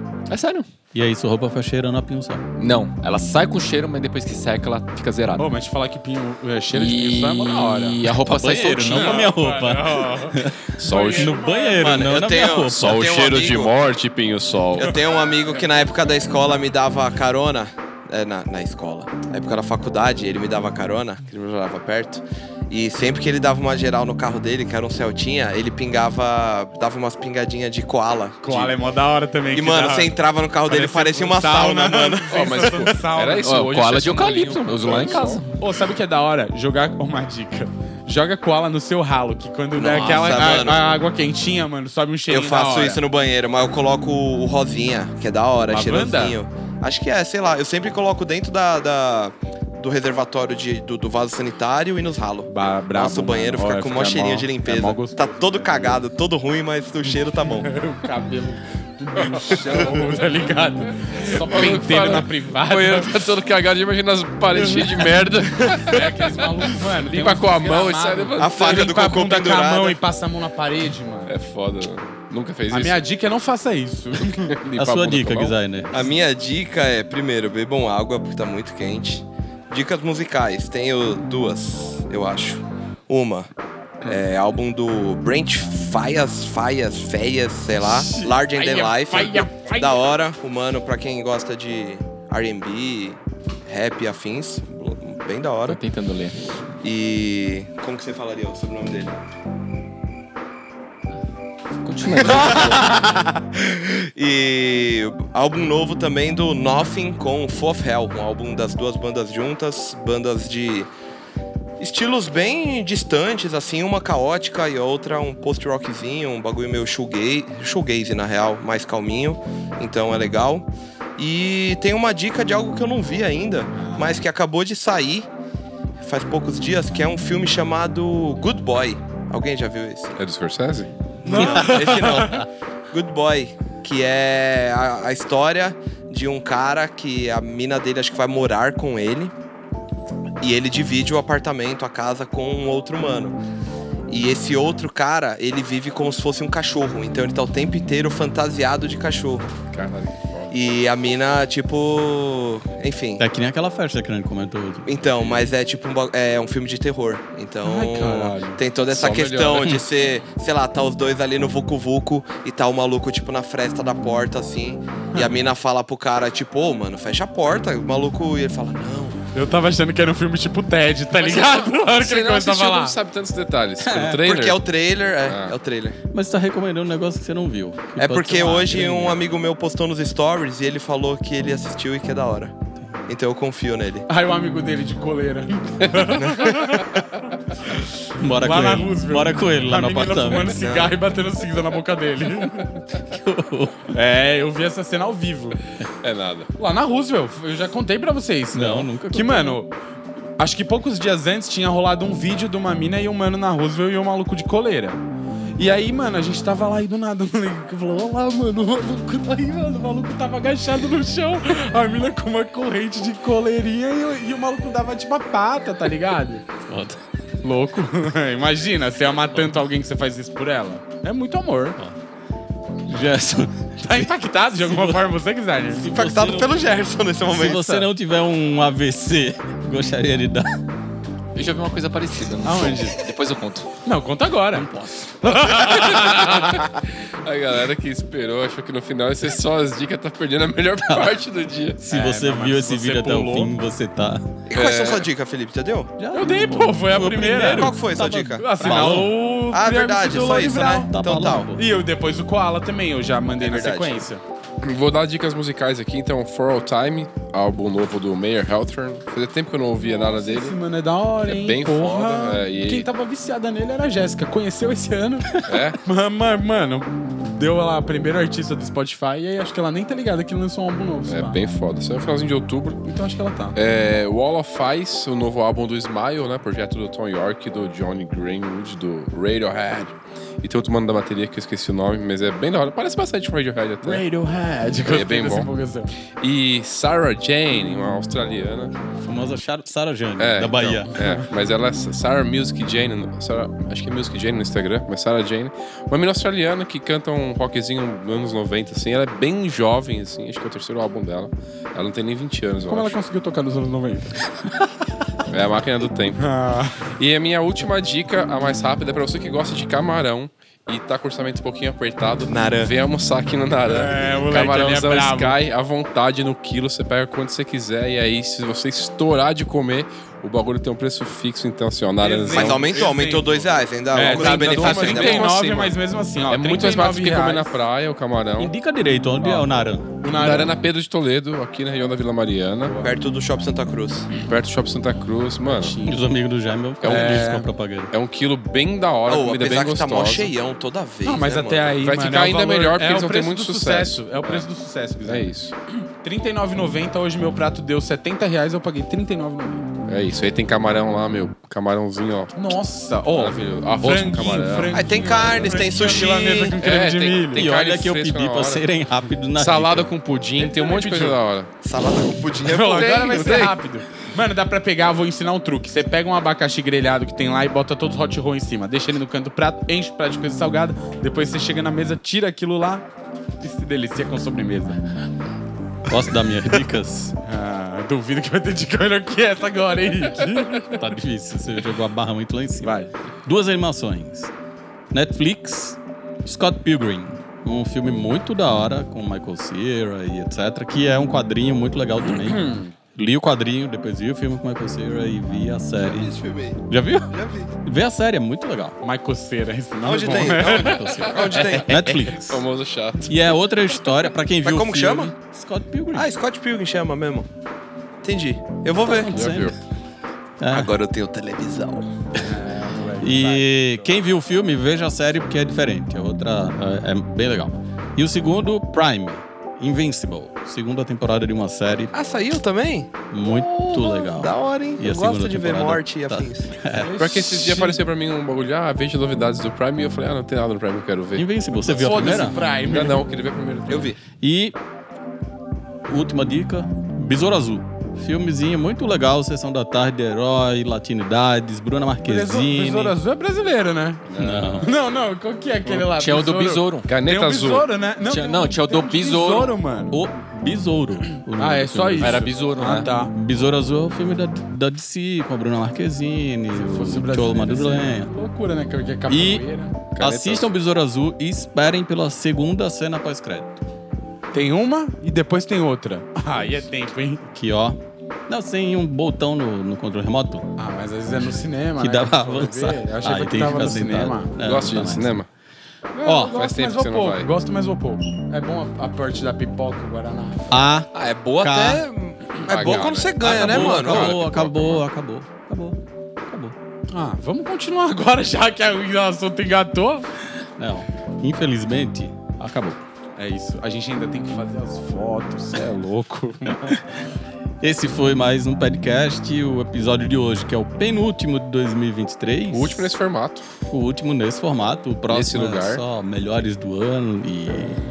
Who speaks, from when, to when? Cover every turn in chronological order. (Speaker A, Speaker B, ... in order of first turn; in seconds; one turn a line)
Speaker A: 0.3-0.7
Speaker B: 0.9-2.5
Speaker A: 2.6-5.5
Speaker C: 5.4-8.0
Speaker A: 6.7-9.3
Speaker B: 8.2-13.2
Speaker C: 8.9-12.2
Speaker D: 10.8-11.4
Speaker E: 11.8-13.8
Speaker D: 12.6-15.0
Speaker E: 14.8-28.7
Speaker C: 28.4-33.5
Speaker E: 29.5-32.9
Speaker D: 32.3-35.4
Speaker A: 33.4-35.5
Speaker C: 35.5-43.0
Speaker E: 39.8-40.9
Speaker E: 42.3-57.7
Speaker C: 45.7-46.4
Speaker C: 52.5-56.0
Speaker C: 57.4-63.2
Speaker D: 61.1-66.1
Speaker C: 64.6-65.0
Speaker C: 65.8-71.3
Speaker D: 67.0-69.1
Speaker E: 68.4-70.0
Speaker D: 71.3-73.0
Speaker C: 72.7-74.6
Speaker D: 74.5-75.6
Speaker B: 74.8-76.0
Speaker E: 75.9-83.5
Speaker E: 84.0-95.8
Speaker C: 87.8-90.0
Speaker A: 95.6-96.5
Speaker E: 96.8-99.2
Speaker A: 101.8-102.9
Speaker E: 102.1-110.9
Speaker E: 111.8-125.3
Speaker C: 123.8-124.2
Speaker E: 126.0-130.2
Speaker D: 130.2-130.9
Speaker C: 131.2-132.4
Speaker E: 131.2-139.3
Speaker B: 131.4-131.8
Speaker E: 140.4-143.4
Speaker E: 144.1-149.6
Speaker D: 149.7-150.6
Speaker E: 150.5-153.2
Speaker B: 153.2-155.5
Speaker E: 154.9-169.2
Speaker C: 157.6-158.6
Speaker D: 158.9-159.9
Speaker C: 165.1-165.4
Speaker C: 169.3-173.0
Speaker D: 171.1-174.7
Speaker B: 173.8-174.2
Speaker E: 174.1-176.0
Speaker D: 175.3-175.6
Speaker B: 176.1-179.3
Speaker E: 178.0-182.6
Speaker B: 182.8-183.1
Speaker E: 183.1-184.1
Speaker C: 184.1-187.1
Speaker C: 187.6-192.7
Speaker B: 188.2-190.7
Speaker E: 190.5-190.9
Speaker B: 193.0-193.9
Speaker C: 193.9-195.6
Speaker D: 196.0-196.5
Speaker C: 196.6-199.7
Speaker B: 198.5-199.6
Speaker C: 200.4-205.0
Speaker C: 205.6-216.4
Speaker B: 216.7-217.0
Speaker C: 217.4-221.8
Speaker B: 222.9-225.0
Speaker C: 223.8-225.8
Speaker B: 225.8-226.6
Speaker E: 225.8-227.7
Speaker B: 227.3-230.6
Speaker C: 227.4-227.9
Speaker A: 231.3-233.7
Speaker C: 232.4-233.0
Speaker C: 233.8-236.7
Speaker D: 235.4-241.8
Speaker B: 240.9-241.2
Speaker B: 241.8-244.3
Speaker C: 241.9-243.5
Speaker E: 244.5-245.9
Speaker D: 244.5-245.1
Speaker B: 246.0-249.2
Speaker C: 246.1-247.8
Speaker E: 247.5-251.5
Speaker C: 248.4-250.9
Speaker B: 250.6-251.6
Speaker C: 251.6-254.2
Speaker E: 253.4-253.9
Speaker D: 254.6-260.6
Speaker C: 259.9-271.5
Speaker D: 261.2-262.9
Speaker D: 265.4-265.8
Speaker D: 271.1-272.9
Speaker C: 272.9-273.6
Speaker D: 273.6-284.1
Speaker C: 283.8-285.9
Speaker D: 284.9-285.5
Speaker D: 286.2-288.7
Speaker B: 289.0-290.9
Speaker D: 290.2-303.0
Speaker C: 290.9-291.2
Speaker C: 302.7-304.2
Speaker D: 305.3-306.3
Speaker C: 306.2-306.9
Speaker D: 306.9-323.0
Speaker E: 312.3-312.7
Speaker C: 313.7-315.4
Speaker C: 322.0-327.6
Speaker E: 322.3-325.3
Speaker D: 323.9-325.8
Speaker D: 326.3-328.5
Speaker B: 328.4-329.9
Speaker C: 329.2-329.5
Speaker C: 330.0-330.6
Speaker D: 330.1-332.8
Speaker C: 332.6-332.9
Speaker E: 332.8-334.1
Speaker D: 334.2-335.8
Speaker C: 335.4-336.1
Speaker B: 335.8-337.9
Speaker D: 336.8-337.4
Speaker C: 336.9-337.5
Speaker D: 337.9-340.3
Speaker E: 339.1-341.8
Speaker C: 341.0-345.3
Speaker D: 341.8-344.5
Speaker D: 345.0-345.5
Speaker C: 346.0-349.7
Speaker D: 349.9-352.6
Speaker C: 352.4-357.5
Speaker D: 353.1-355.6
Speaker E: 354.7-356.6
Speaker D: 356.6-358.7
Speaker B: 357.3-359.9
Speaker D: 359.4-361.5
Speaker C: 360.4-361.2
Speaker E: 361.6-363.4
Speaker C: 362.4-372.9
Speaker D: 362.7-363.6
Speaker C: 373.4-374.8
Speaker B: 375.9-377.1
Speaker C: 377.2-380.9
Speaker B: 380.8-382.7
Speaker C: 382.6-382.9
Speaker B: 383.2-384.3
Speaker B: 384.9-396.1
Speaker C: 392.1-392.7
Speaker E: 395.8-397.5
Speaker B: 396.7-398.8
Speaker C: 398.8-400.9
Speaker E: 399.8-402.1
Speaker B: 400.1-402.4
Speaker D: 402.3-403.3
Speaker B: 403.1-406.1
Speaker E: 404.4-405.1
Speaker E: 405.9-407.3
Speaker E: 408.0-409.1
Speaker B: 408.8-409.5
Speaker D: 409.0-409.6
Speaker B: 410.4-410.8
Speaker E: 410.5-411.9
Speaker C: 412.2-413.8
Speaker B: 413.0-421.9
Speaker E: 421.9-427.7
Speaker B: 423.1-426.9
Speaker C: 426.8-427.5
Speaker D: 427.0-433.9
Speaker B: 431.1-432.4
Speaker C: 431.8-433.0
Speaker E: 433.7-434.0
Speaker B: 434.2-434.6
Speaker B: 435.9-443.0
Speaker C: 442.1-444.1
Speaker D: 444.1-444.6
Speaker B: 444.1-444.7
Speaker C: 444.6-450.0
Speaker A: 445.7-446.9
Speaker D: 446.9-447.7
Speaker A: 448.0-449.6
Speaker B: 449.9-452.2
Speaker C: 451.2-453.1
Speaker A: 452.0-452.9
Speaker B: 453.1-458.1
Speaker C: 456.5-459.8
Speaker B: 459.1-463.6
Speaker D: 460.0-460.5
Speaker C: 464.3-467.3
Speaker B: 467.3-470.5
Speaker C: 470.6-474.3
Speaker B: 471.8-475.2
Speaker D: 474.4-475.3
Speaker C: 475.9-480.5
Speaker B: 476.1-476.4
Speaker D: 476.1-477.3
Speaker B: 480.5-481.9
Speaker E: 480.9-484.2
Speaker D: 482.4-484.8
Speaker B: 482.7-486.6
Speaker C: 486.9-490.1
Speaker B: 490.6-492.8
Speaker C: 493.2-496.9
Speaker B: 497.6-502.9
Speaker D: 502.5-503.5
Speaker B: 503.7-507.8
Speaker D: 505.1-505.8